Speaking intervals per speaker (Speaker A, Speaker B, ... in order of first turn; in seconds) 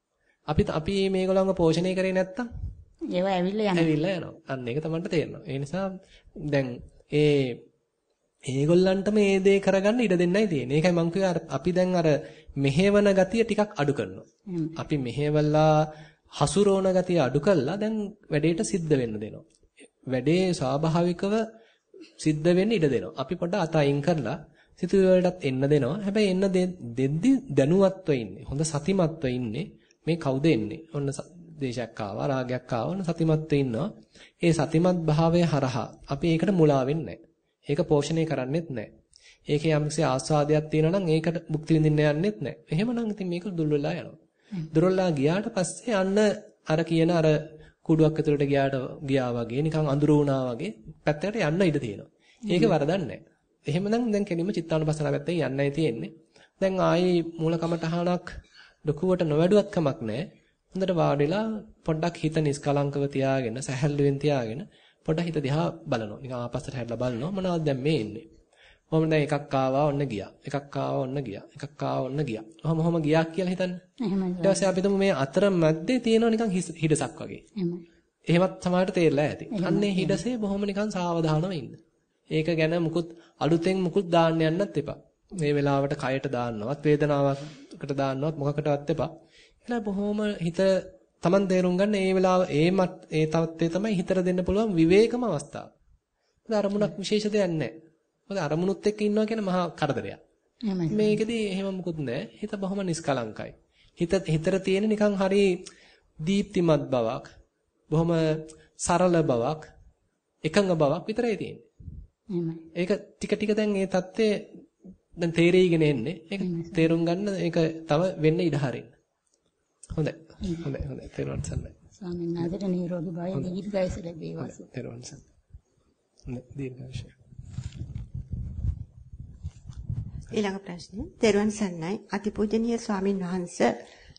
Speaker A: 0.5-2.5, 3.7-5.9, 6.5-7.6, 8.5-15.8, 16.4-19.4, 20.1-21.4, 22.2-33.9, 34.4-38.9, 39.5-44.2, 44.7-58.2, 58.8-68.3, 68.9-73.8, 74.4-77.4, 78.3-81.8, 82.3-89.1, 89.7-95.7, 96.5-97.7, 98.3-100.2, 100.9-105.5, 106.2-107.2, 107.9-109.6, 110.4-111.6, 112.7-114.5, 115.2-118.9, 119.9-121.7, 124.4-125.2, 126.3-127.1
Speaker B: 3.1-3.9, 14.5-14.7, 52.5-52.7, 74.0-74.6, 77.6-77.8, 79.5-80.2, 100.7-101.2, 112.3-112.6, 116.4-116.9, 122.0-124.6
Speaker C: 130.3-133.7